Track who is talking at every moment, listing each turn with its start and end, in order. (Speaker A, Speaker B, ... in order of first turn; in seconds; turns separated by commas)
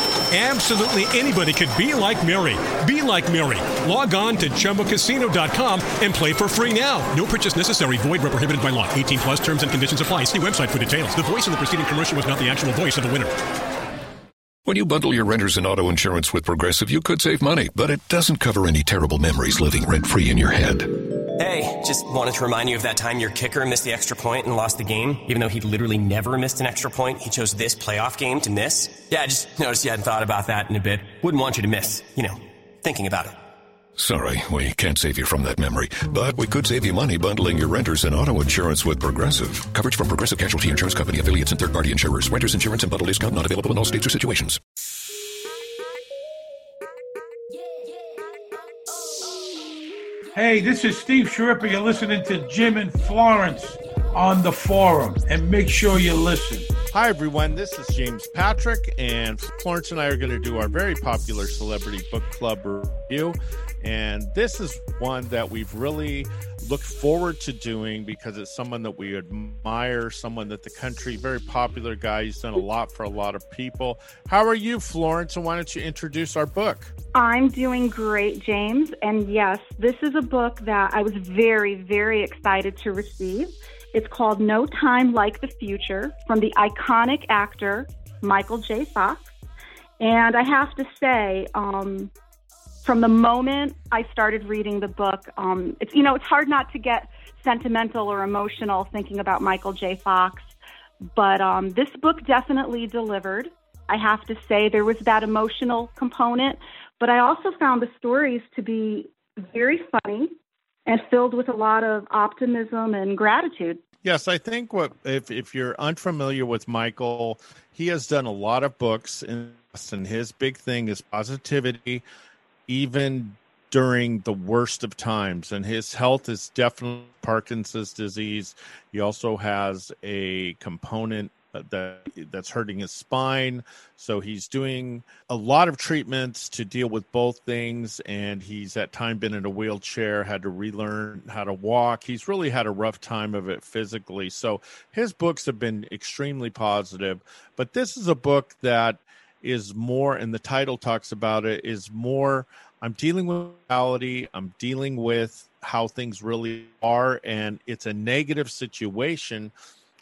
Speaker A: 0.3-13.3, Speaker B: 14.6-20.9, Speaker C: 21.4-33.4, Speaker B: 34.0-44.6, Speaker D: 50.3-56.7, Speaker E: 56.9-76.9, Speaker F: 77.1-89.3, Speaker F: 90.0-92.1, Speaker F: 92.8-100.5, Speaker F: 101.1-110.3, Speaker F: 110.8-113.8, Speaker E: 114.0-122.0, Speaker E: 122.7-159.5